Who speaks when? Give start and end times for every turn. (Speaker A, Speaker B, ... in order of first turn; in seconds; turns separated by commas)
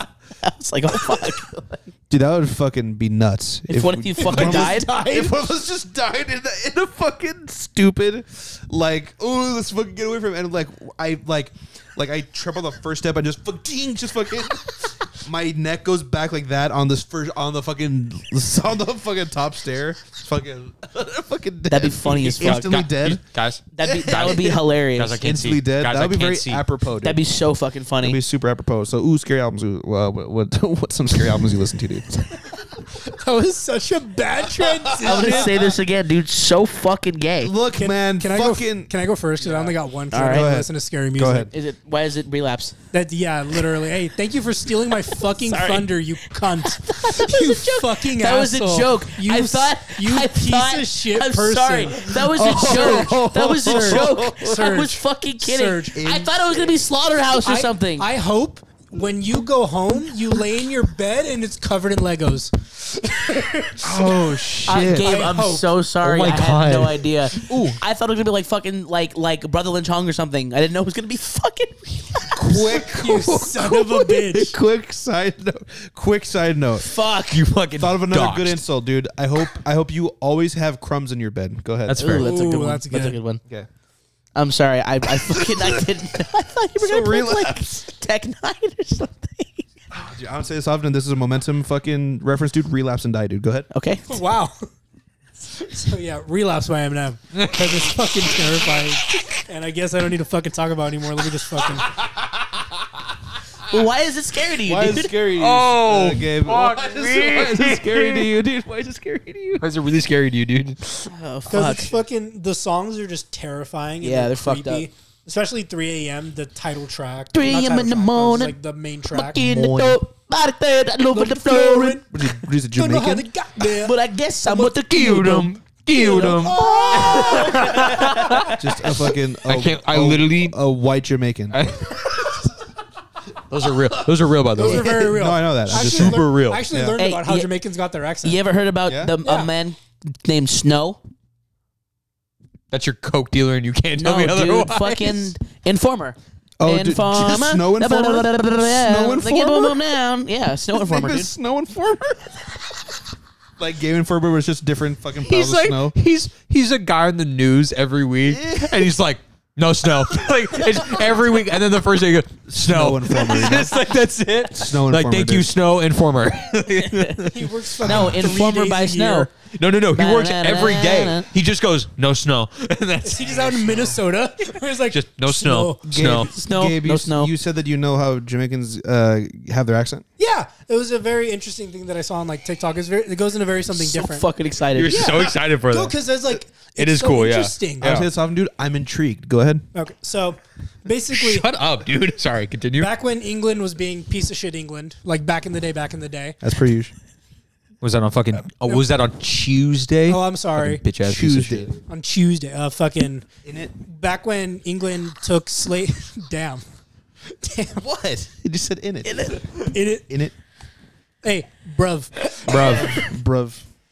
Speaker A: 0.4-1.8, Speaker B: 2.1-23.2, Speaker A: 3.7-5.2, Speaker A: 21.7-22.7, Speaker C: 22.4-26.6, Speaker A: 23.8-25.2, Speaker B: 23.8-24.4, Speaker B: 25.2-27.2, Speaker A: 27.0-28.2, Speaker B: 28.0-32.1, Speaker D: 33.1-35.6, Speaker B: 34.6-35.7, Speaker A: 35.0-37.5, Speaker B: 37.4-38.9, Speaker D: 37.8-41.5, Speaker A: 40.1-40.5, Speaker B: 40.2-41.5, Speaker A: 41.5-42.8, Speaker D: 42.9-56.0, Speaker A: 45.1-45.9, Speaker A: 46.6-58.1, Speaker B: 52.3-54.6, Speaker B: 56.0-56.7, Speaker D: 57.4-63.9, Speaker B: 63.8-65.3, Speaker D: 64.7-65.7, Speaker A: 64.7-72.9, Speaker C: 66.0-67.1, Speaker B: 67.4-67.8, Speaker B: 72.3-76.9, Speaker D: 72.9-74.5, Speaker A: 76.8-77.4, Speaker C: 77.3-78.6, Speaker B: 77.8-82.3, Speaker C: 81.9-82.4, Speaker A: 82.0-83.4, Speaker D: 82.2-83.2, Speaker A: 84.3-89.7, Speaker B: 85.2-85.9, Speaker B: 86.8-87.8, Speaker B: 89.9-93.7, Speaker A: 93.7-94.2, Speaker D: 94.1-94.7, Speaker D: 95.5-102.0, Speaker C: 97.3-98.0, Speaker C: 101.8-102.7, Speaker A: 103.7-105.1, Speaker B: 104.6-109.7, Speaker C: 105.3-108.3, Speaker C: 109.6-111.1, Speaker A: 111.1-111.9, Speaker D: 111.5-119.5, Speaker A: 114.0-114.9, Speaker A: 117.3-118.5, Speaker A: 119.1-122.0, Speaker B: 119.4-120.0, Speaker D: 121.1-122.1, Speaker B: 122.1-123.3, Speaker D: 122.7-124.7, Speaker A: 123.6-128.6, Speaker C: 124.7-130.6, Speaker D: 125.9-128.6, Speaker B: 128.5-131.6, Speaker C: 131.5-132.5, Speaker C: 133.5-135.1, Speaker D: 134.6-138.4, Speaker B: 134.9-137.0, Speaker C: 135.7-136.7, Speaker A: 137.0-137.5, Speaker A: 138.2-141.0, Speaker B: 138.9-139.1, Speaker D: 139.2-139.5, Speaker C: 142.7-145.3, Speaker A: 144.0-151.3, Speaker B: 146.6-149.9, Speaker B: 150.7-152.6, Speaker B: 153.6-155.9, Speaker C: 155.2-167.6, Speaker B: 158.3-158.9, Speaker B: 162.5-163.8, Speaker B: 164.5-165.5, Speaker A: 166.8-167.3, Speaker D: 167.3-169.3, Speaker A: 167.8-169.3, Speaker B: 167.9-168.2, Speaker C: 169.5-173.9, Speaker A: 169.9-171.3, Speaker D: 173.0-175.8, Speaker C: 174.9-176.3, Speaker B: 175.9-180.1, Speaker A: 176.3-177.3, Speaker D: 180.2-184.3, Speaker A: 183.7-185.1, Speaker C: 184.7-186.0, Speaker D: 184.9-187.9, Speaker C: 186.8-188.1, Speaker B: 187.8-189.7, Speaker D: 189.7-191.5, Speaker C: 191.1-192.9, Speaker D: 192.8-196.4, Speaker B: 196.4-196.9, Speaker C: 197.8-201.7, Speaker D: 200.1-200.8, Speaker B: 201.0-201.7, Speaker D: 201.9-203.3, Speaker B: 203.4-203.7, Speaker D: 203.8-206.6, Speaker D: 207.3-207.8, Speaker B: 207.8-209.4, Speaker A: 209.1-209.4, Speaker D: 209.7-210.1, Speaker B: 210.1-210.3, Speaker D: 211.2-212.9, Speaker C: 212.4-213.0, Speaker B: 212.5-213.6